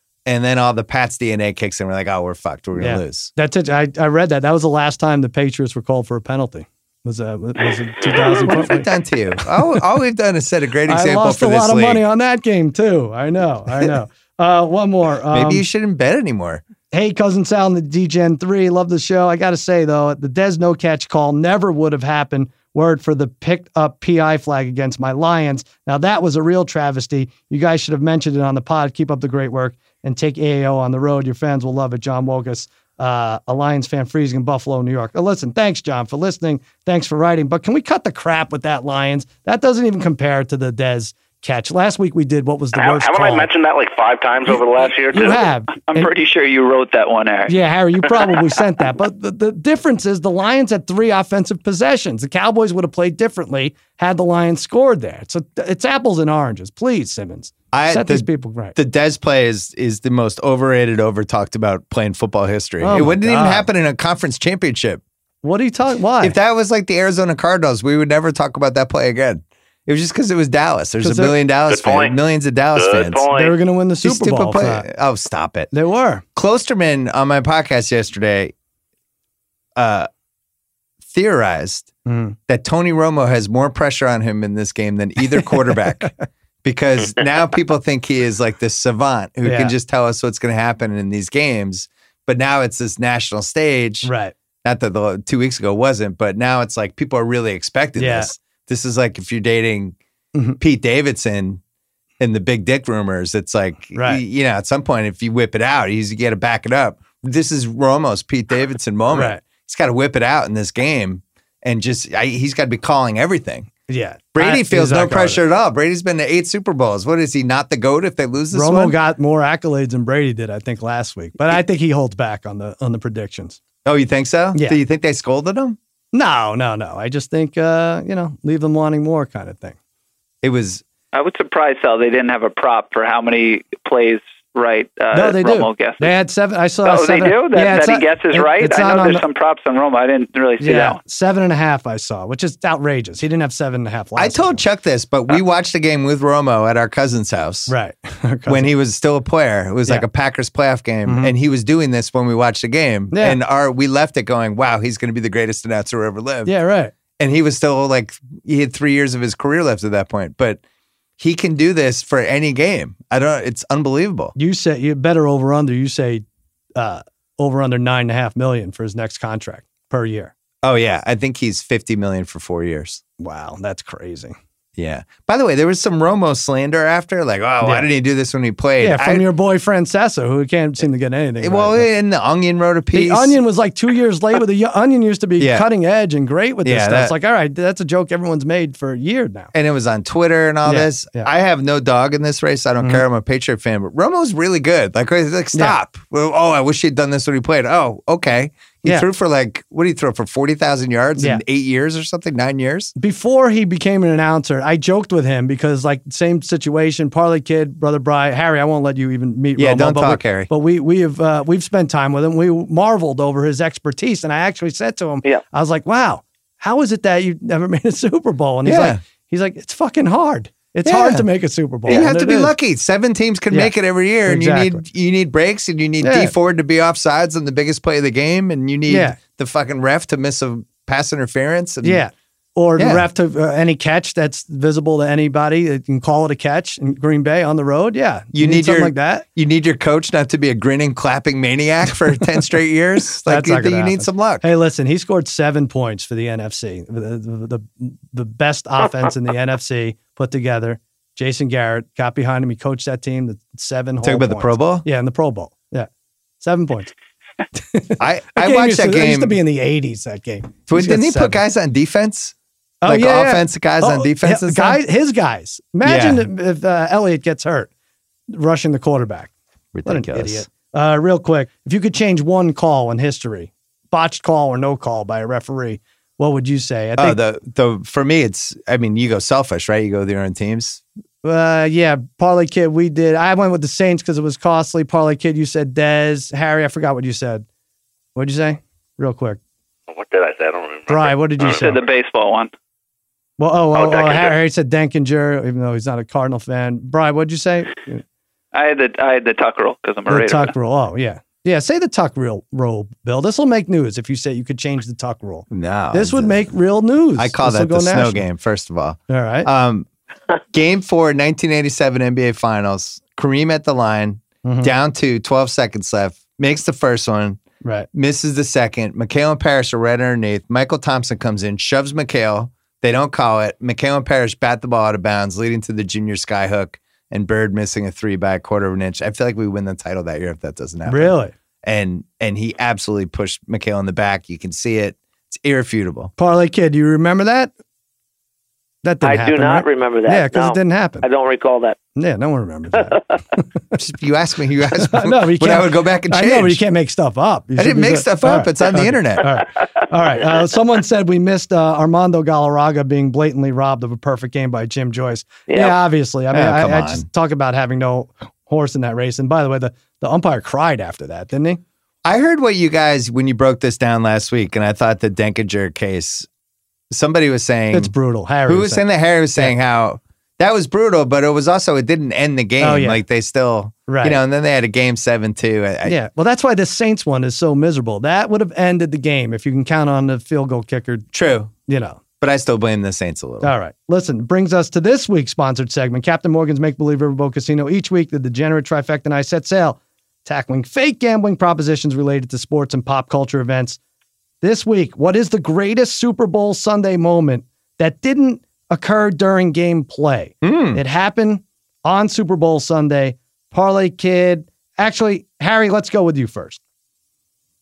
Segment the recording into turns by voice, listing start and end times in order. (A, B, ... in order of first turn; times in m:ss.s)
0:00.2-0:03.3 A
0:02.8-0:08.9 B
0:08.2-0:12.0 A
0:09.4-0:09.8 B
0:10.9-0:15.6 B
0:15.3-0:16.6 A
0:16.9-0:43.5 B
0:42.7-0:45.4 C
0:45.1-0:46.1 B
0:45.8-0:47.6 D
0:47.5-0:58.8 B
0:57.7-1:05.0 A
1:02.8-1:03.7 B
1:05.4-1:06.4 B
1:06.2-1:13.2 A
1:11.0-1:11.4 B
1:11.7-1:12.2 C
1:12.7-1:13.6 C
1:13.3-1:14.8 B
1:14.0-1:15.7 A
1:15.7-1:16.2 B
1:16.3-1:18.5 A
1:19.8-1:20.1 A
1:21.1-1:21.9 A
1:22.0-1:22.4 B
1:22.5-1:26.1 A
1:26.6-1:34.1 A
1:29.4-1:29.7 B
1:34.0-1:34.3 B
1:34.6-1:40.0 A
1:38.0-1:38.3 B
1:40.3-1:40.6 B
1:40.6-1:41.6 A
1:42.2-1:53.7 A
1:43.9-1:44.2 B
1:49.1-1:49.4 B
1:53.9-1:55.4 B
1:54.3-1:59.0 A
1:58.5-2:03.6 B
2:03.8-2:05.8 A
2:06.1-2:09.8 B
2:10.4-2:10.8 A
2:11.1-2:16.1 D
2:15.1-2:19.2 B
2:16.8-2:21.0 D
2:20.6-2:24.6 B
2:24.2-2:27.7 A
2:27.7-2:28.7 B
2:28.5-2:36.5 A
2:31.0-2:31.3 B
2:33.1-2:33.4 B
2:36.4-2:36.9 B
2:37.2-2:40.6 A
2:41.2-2:44.4 A
2:44.4-2:46.2 B
2:46.8-2:50.3 B
2:50.6-2:53.0 A
2:53.2-2:54.4 B
2:54.8-2:59.2 A
2:57.6-2:57.9 B
2:58.8-3:01.9 B
3:01.4-3:03.4 A
3:02.9-3:09.5 B
3:05.4-3:05.6 A
3:06.6-3:07.1 A
3:09.5-3:22.9 A
3:10.6-3:11.3 B
3:23.0-3:42.5 B
3:29.6-3:30.5 A
3:38.6-3:39.0 A
3:40.8-3:41.2 A
3:41.8-3:52.0 A
3:44.2-3:44.8 B
3:46.0-3:46.3 B
3:48.9-3:49.2 B
3:51.8-3:59.2 B
3:52.8-3:53.0 A
3:58.3-4:04.4 A
4:03.2-4:15.9 B
4:14.0-4:14.8 A
4:16.4-4:16.9 B
4:17.5-4:21.4 B
4:18.0-4:19.4 A
4:20.7-4:22.3 A
4:22.8-4:27.7 B
4:22.8-4:24.8 A
4:25.8-4:26.2 A
4:28.3-4:29.3 B
4:29.7-4:30.5 A
4:29.8-4:37.2 B
4:37.0-4:40.8 A
4:41.2-4:47.4 B
4:48.1-4:49.4 B
4:49.9-4:51.6 C
4:50.9-4:51.8 B
4:51.4-4:52.5 D
4:53.4-4:58.0 B
4:53.7-4:54.3 C
4:58.5-5:00.5 D
5:00.1-5:08.2 B
5:05.5-5:06.4 A
5:07.2-5:09.9 A
5:09.1-5:09.5 B
5:10.5-5:17.4 A
5:14.4-5:14.7 B
5:17.6-5:17.9 B
5:17.9-5:36.1 A
5:30.9-5:31.3 B
5:36.2-5:37.5 B
5:38.8-5:41.0 B
5:39.0-5:41.8 E
5:42.0-5:43.4 B
5:43.7-5:46.6 A
5:44.8-6:01.6 B
5:47.6-5:49.4 A
5:55.5-5:55.8 E
5:56.3-5:57.0 A
6:02.0-6:06.3 A
6:06.9-6:07.9 A
6:07.7-6:09.5 B
6:08.4-6:16.0 A
6:12.6-6:13.0 B
6:13.9-6:14.2 B
6:15.8-6:21.1 B
6:21.1-6:21.5 A
6:21.7-6:22.0 B
6:22.2-6:23.5 A
6:23.4-6:33.8 B
6:34.4-6:46.6 B
6:40.4-6:40.8 A